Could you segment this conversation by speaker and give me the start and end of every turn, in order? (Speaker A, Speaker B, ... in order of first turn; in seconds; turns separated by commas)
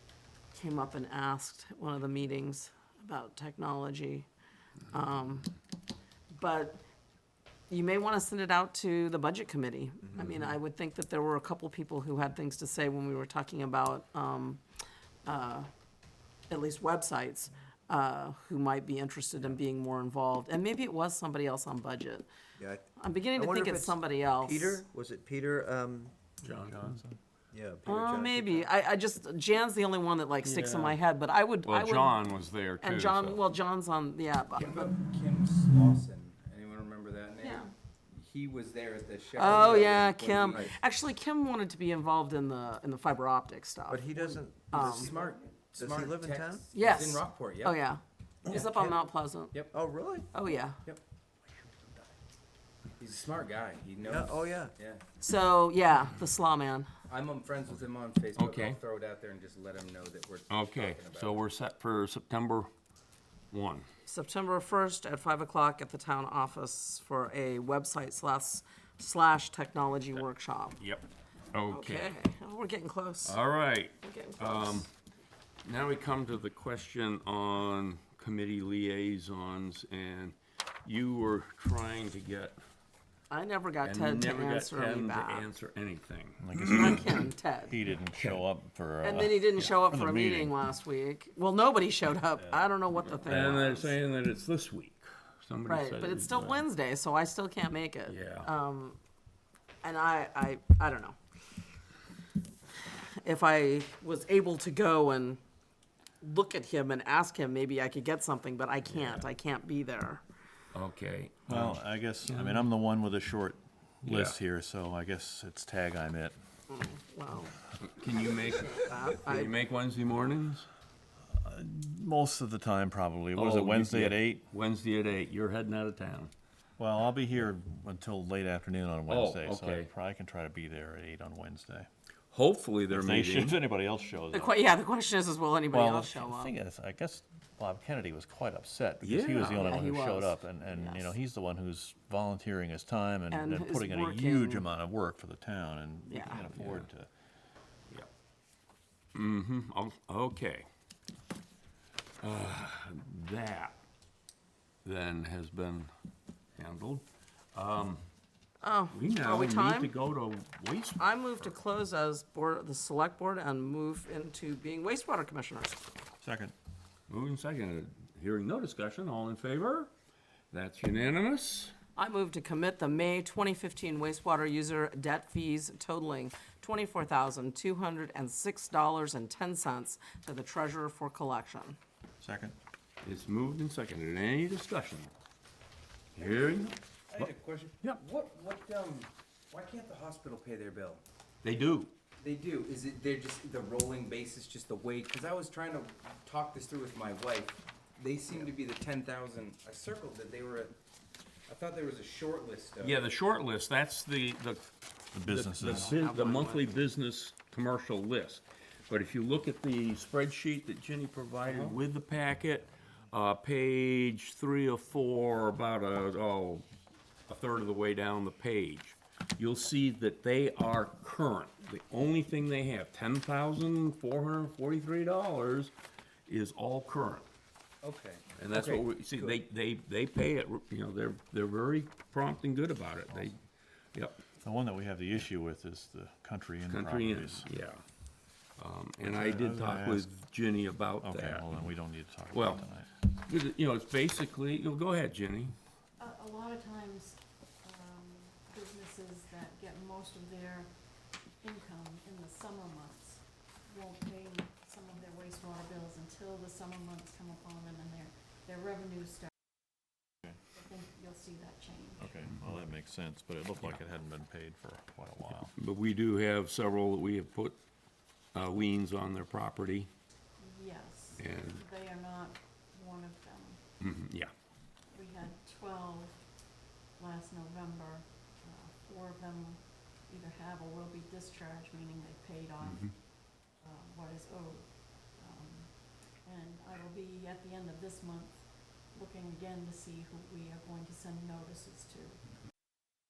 Speaker A: 0.5-4.3, Speaker A: 4.9-5.5, Speaker A: 6.3-6.8, Speaker A: 7.7-14.6, Speaker A: 15.2-15.7, Speaker A: 16.5-22.3, Speaker B: 22.6-26.1, Speaker A: 22.9-24.8, Speaker C: 26.4-27.0, Speaker D: 26.7-27.2, Speaker B: 27.5-28.7, Speaker A: 27.9-32.2, Speaker C: 30.4-31.0, Speaker C: 31.6-33.4, Speaker A: 32.8-34.9, Speaker E: 34.5-40.7, Speaker A: 39.3-44.0, Speaker B: 43.9-46.6, Speaker E: 44.1-47.8, Speaker A: 44.7-45.1, Speaker A: 46.7-49.6, Speaker B: 48.5-49.0, Speaker B: 49.7-50.3, Speaker A: 50.3-50.8, Speaker E: 53.0-55.0, Speaker B: 54.0-54.7, Speaker A: 55.2-56.9, Speaker E: 57.1-61.4, Speaker C: 58.4-58.8, Speaker C: 60.5-62.7, Speaker C: 63.5-63.9, Speaker A: 64.0-70.8, Speaker C: 70.8-72.1, Speaker A: 71.7-73.4, Speaker C: 73.2-74.9, Speaker A: 74.0-74.8, Speaker C: 75.6-82.6, Speaker A: 83.3-85.5, Speaker C: 83.8-87.0, Speaker D: 86.4-90.5, Speaker A: 86.6-87.8, Speaker C: 88.1-88.4, Speaker A: 89.0-94.0, Speaker D: 92.4-92.6, Speaker C: 93.2-96.6, Speaker A: 95.7-99.0, Speaker C: 98.0-98.5, Speaker A: 99.8-101.2, Speaker A: 102.8-105.4, Speaker A: 106.2-110.2, Speaker C: 110.7-112.7, Speaker D: 111.5-116.3, Speaker C: 114.0-114.4, Speaker A: 116.7-117.5, Speaker C: 117.8-120.7, Speaker A: 118.6-119.5, Speaker D: 121.3-124.4, Speaker C: 123.3-126.3, Speaker D: 126.8-131.9, Speaker C: 129.1-129.9, Speaker C: 132.3-133.6, Speaker D: 132.9-134.6, Speaker A: 134.3-136.5, Speaker D: 135.7-147.1, Speaker C: 139.0-139.7, Speaker A: 139.6-141.1, Speaker A: 143.3-144.7, Speaker A: 146.1-146.5, Speaker C: 146.4-146.9, Speaker C: 149.1-150.7, Speaker C: 152.2-153.8, Speaker C: 154.8-155.9, Speaker C: 156.6-158.0, Speaker A: 158.6-159.9, Speaker C: 158.9-161.5, Speaker A: 161.0-165.8, Speaker D: 166.2-166.5, Speaker C: 167.1-169.9, Speaker C: 170.5-171.7, Speaker A: 171.9-181.8, Speaker D: 182.2-182.6, Speaker C: 183.0-185.1, Speaker C: 186.1-186.8, Speaker E: 186.2-191.0, Speaker C: 191.4-191.9, Speaker E: 192.2-200.7, Speaker E: 201.5-203.0, Speaker C: 202.8-216.7, Speaker D: 205.1-206.0, Speaker A: 205.7-206.7, Speaker E: 211.4-211.8, Speaker C: 217.3-225.7, Speaker C: 226.3-227.2, Speaker E: 227.8-229.4, Speaker C: 228.4-233.4, Speaker C: 233.9-234.2, Speaker D: 234.4-237.5, Speaker C: 236.7-237.8, Speaker C: 238.6-241.6, Speaker D: 239.0-240.1, Speaker D: 241.0-242.9, Speaker C: 242.3-245.5, Speaker F: 246.0-250.8, Speaker F: 251.4-259.3, Speaker F: 260.5-262.1, Speaker D: 262.0-265.5, Speaker C: 265.5-267.6, Speaker C: 268.3-269.9, Speaker F: 270.4-273.6, Speaker C: 271.2-271.6, Speaker C: 273.8-274.3, Speaker F: 274.9-276.4, Speaker F: 276.9-292.2, Speaker C: 282.6-282.9